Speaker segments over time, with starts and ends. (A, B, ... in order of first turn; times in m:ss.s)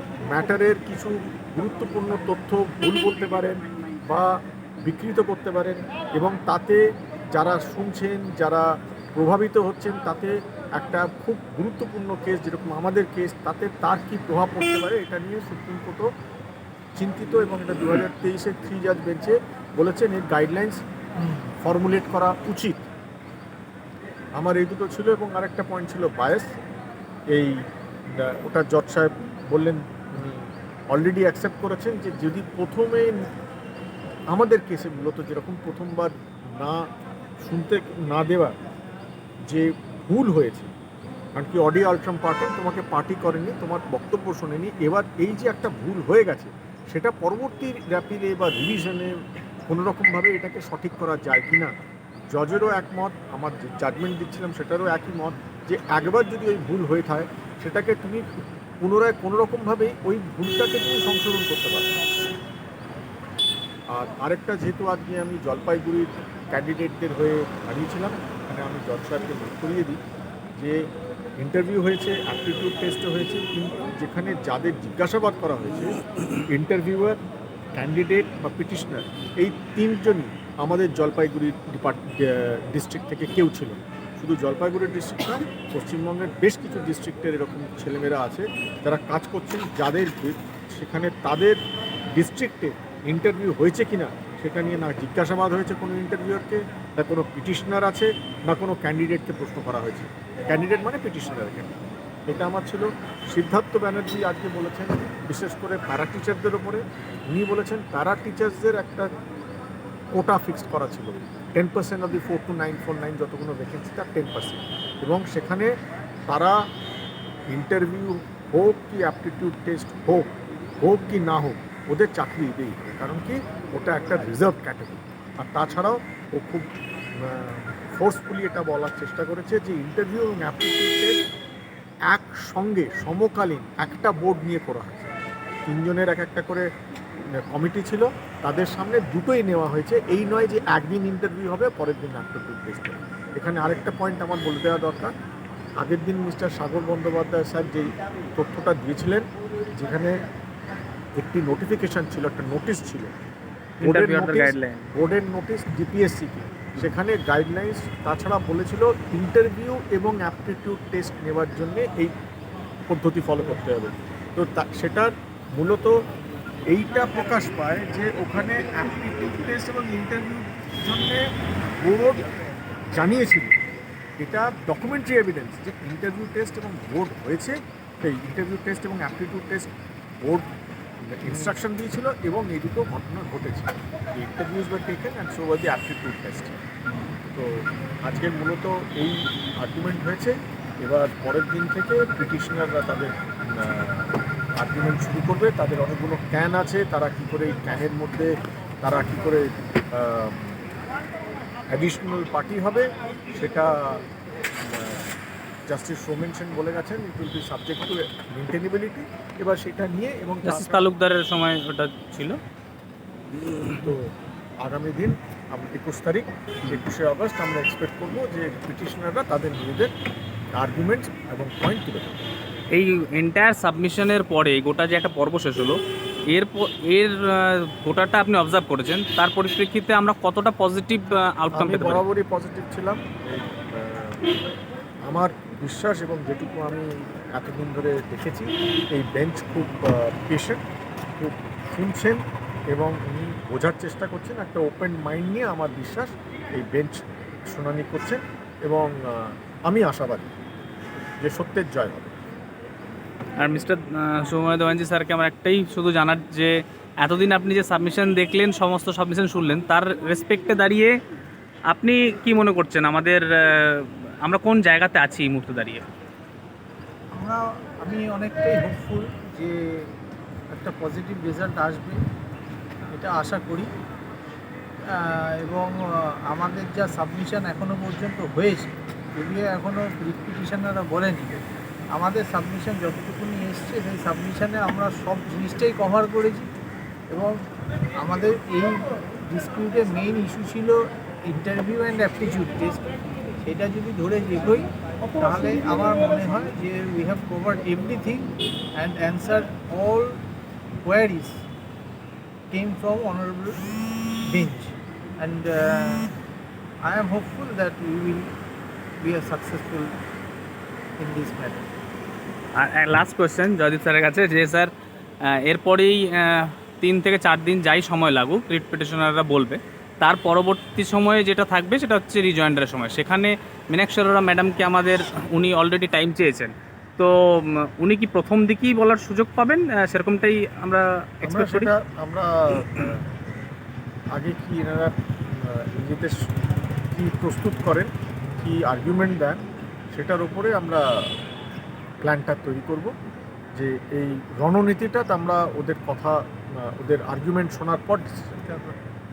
0:00.3-0:16.1 A
0:17.0-0:20.8 A
0:21.2-0:21.5 B
0:21.6-0:22.8 A
0:24.4-0:26.5 A
0:27.3-0:33.2 A
0:34.3-0:36.9 A
0:37.4-0:38.6 A
0:39.4-0:40.7 A
0:41.4-0:51.8 A
0:52.3-1:01.9 A
1:03.9-1:10.0 A
1:10.5-1:10.8 A
1:11.4-1:16.0 A
1:16.5-1:17.2 A
1:17.7-1:31.6 A
1:32.1-1:49.1 A
1:50.1-1:55.7 A
1:56.3-1:56.6 A
1:57.5-2:00.3 A
2:00.8-2:06.6 A
2:07.2-2:11.1 A
2:12.1-2:15.1 A
2:15.7-2:16.7 A
2:17.3-2:25.1 A
2:25.8-2:30.2 A
2:31.2-2:33.1 A
2:33.8-2:34.9 C
2:33.8-2:42.1 A
2:42.9-2:46.0 A
2:46.7-2:52.2 A
2:52.9-2:53.6 A
2:54.2-2:59.7 A
3:01.0-3:06.6 A
3:07.3-3:20.6 A
3:21.7-3:24.0 A
3:24.6-3:25.1 A
3:25.7-3:30.9 A
3:30.4-3:32.4 C
3:33.6-3:39.9 A
3:40.6-3:42.2 A
3:42.7-3:45.8 C
3:46.3-3:52.0 C
3:51.5-3:54.3 A
3:55.0-4:00.6 A
4:01.1-4:10.3 A
4:11.2-4:12.1 A
4:13.4-4:20.9 C
4:21.7-4:25.8 C
4:27.1-4:29.9 B
4:30.5-4:32.0 B
4:32.9-4:33.7 B
4:34.9-4:41.4 B
4:41.9-4:46.5 B
4:47.1-4:47.4 B
4:48.0-5:00.2 B
5:00.8-5:01.4 B
5:02.5-5:06.1 B
5:06.8-5:08.3 B
5:09.0-5:10.0 B
5:11.0-5:11.7 B
5:12.5-5:14.7 C
5:15.2-5:31.7 C
5:31.2-5:33.1 A
5:34.1-5:39.4 A
5:39.9-5:41.1 A
5:42.0-5:42.9 A
5:43.5-5:48.5 A
5:48.5-5:48.7 B